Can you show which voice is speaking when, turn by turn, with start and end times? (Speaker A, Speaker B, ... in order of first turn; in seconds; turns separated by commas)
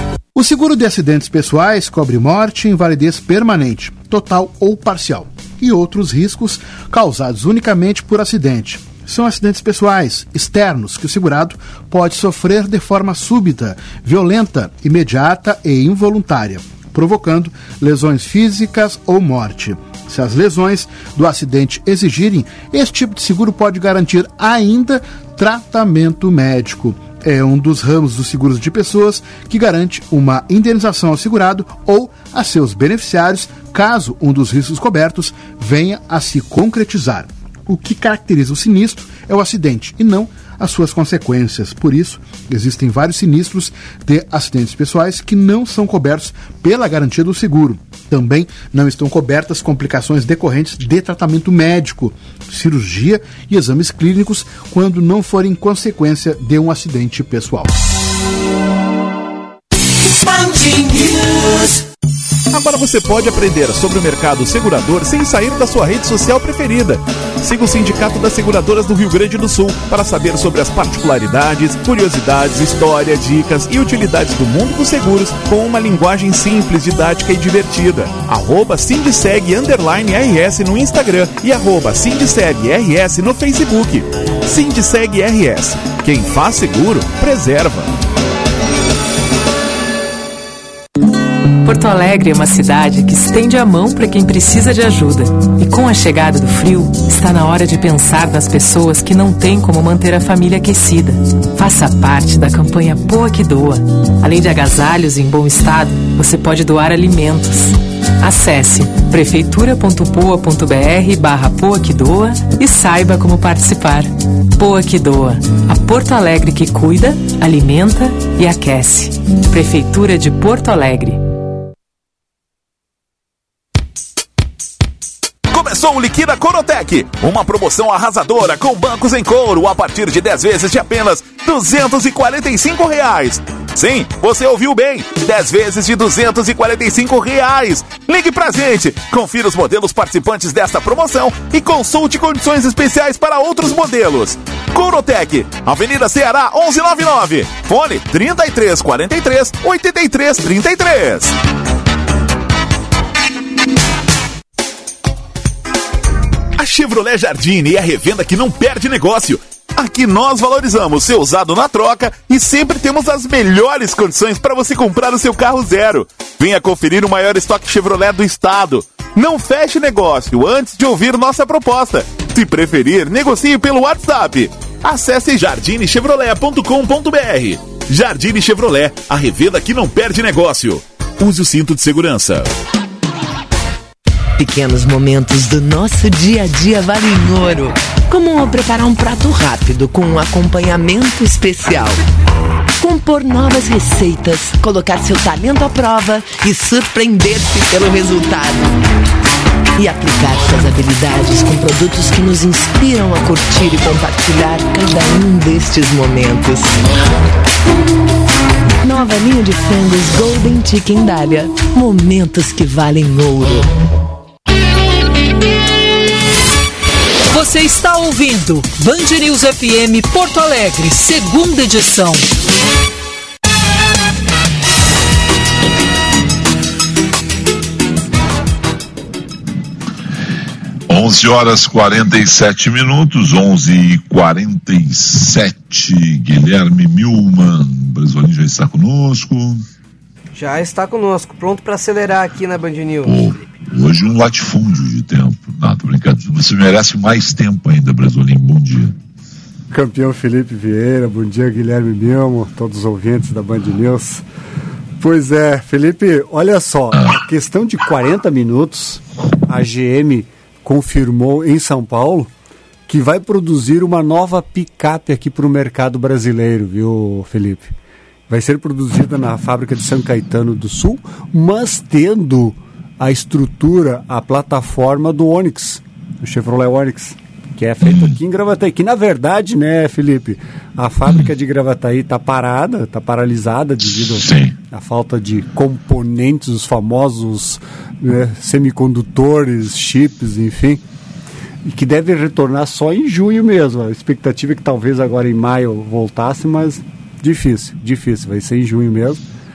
Speaker A: 0.3-57.7, Speaker B: 62.5-87.9, Speaker C: 91.7-107.7, Speaker C: 108.2-121.2, Speaker B: 125.5-151.3, Speaker B: 156.6-182.5, Speaker D: 184.4-192.0, Speaker D: 192.8-198.7, Speaker D: 199.8-206.7, Speaker D: 208.8-213.7, Speaker E: 217.3-222.3, Speaker F: 230.9-239.7, Speaker G: 240.3-243.5, Speaker F: 243.0-248.9, Speaker H: 249.7-254.2, Speaker H: 255.0-262.3, Speaker F: 256.9-257.2, Speaker H: 262.9-267.7, Speaker H: 268.3-290.8, Speaker F: 277.8-278.2, Speaker F: 284.0-284.5, Speaker H: 291.6-299.2